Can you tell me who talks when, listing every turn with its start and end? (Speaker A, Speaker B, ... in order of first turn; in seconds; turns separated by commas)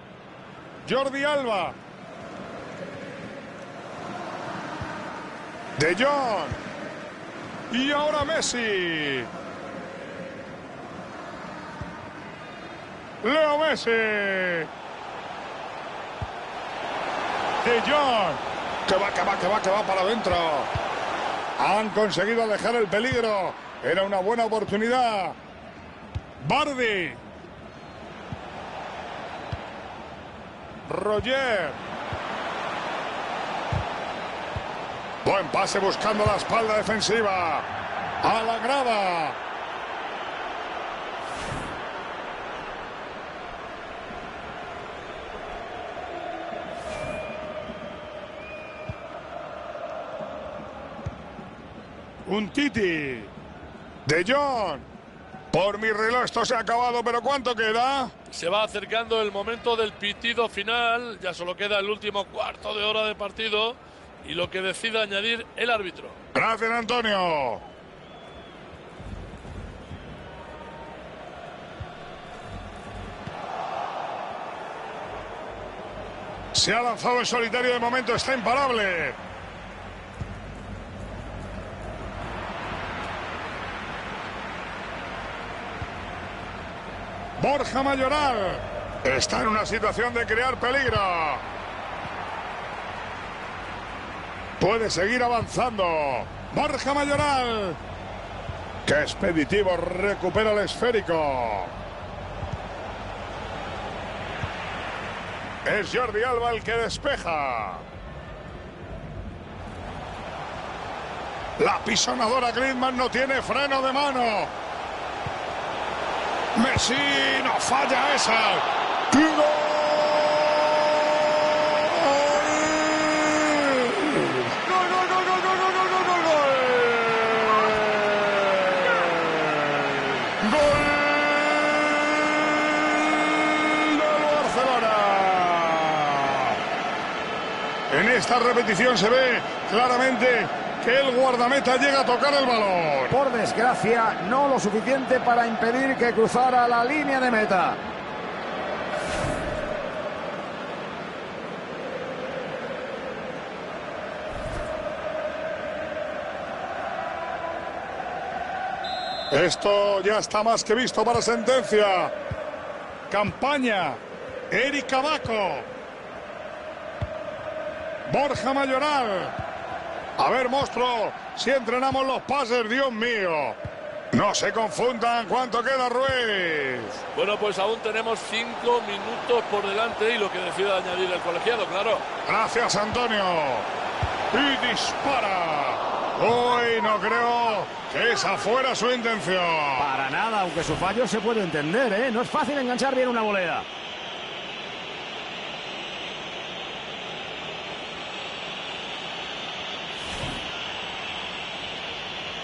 Speaker A: 0.8-1.8, Speaker A: 5.8-6.6, Speaker A: 7.7-9.3, Speaker A: 13.2-14.7, Speaker A: 17.6-20.7, Speaker A: 21.6-25.4, Speaker A: 26.4-27.2, Speaker A: 30.9-31.8, Speaker A: 35.2-37.7, Speaker A: 38.2-39.4, Speaker A: 52.2-53.3, Speaker A: 54.0-54.9, Speaker A: 55.5-58.1, Speaker B: 58.3-66.2, Speaker A: 66.3-67.6, Speaker A: 76.5-79.2, Speaker A: 87.4-91.4, Speaker A: 94.6-97.8, Speaker A: 98.8-101.7, Speaker A: 105.6-107.8, Speaker A: 111.6-114.5, Speaker A: 116.5-136.6, Speaker A: 137.9-143.2, Speaker C: 143.1-147.8, Speaker A: 159.3-162.1, Speaker A: 163.1-165.7, Speaker A: 168.1-169.3, Speaker A: 170.2-173.6, Speaker A: 174.1-177.0, Speaker B: 177.1-182.0, Speaker A: 182.2-183.7, Speaker A: 184.3-189.9, Speaker C: 189.8-193.7